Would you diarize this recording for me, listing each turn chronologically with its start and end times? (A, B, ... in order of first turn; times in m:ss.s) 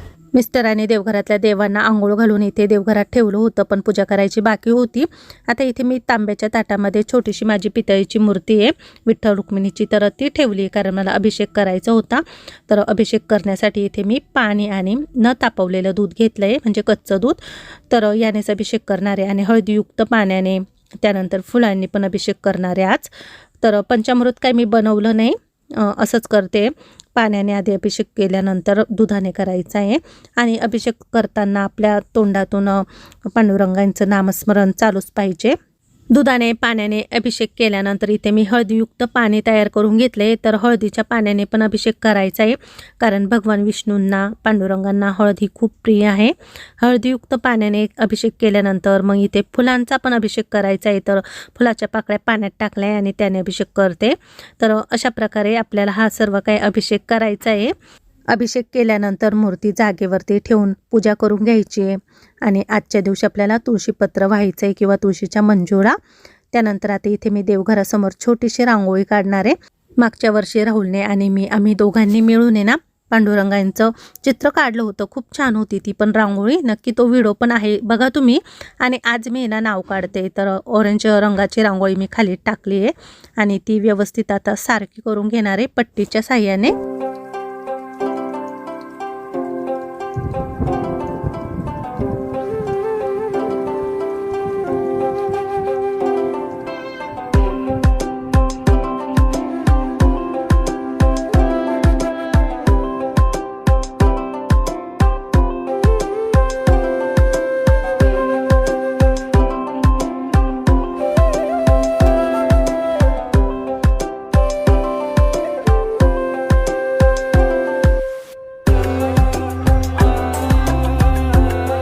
0:00.3-0:35.6 A
0:36.1-0:57.7 A
0:58.3-1:05.9 A
1:06.5-1:26.7 A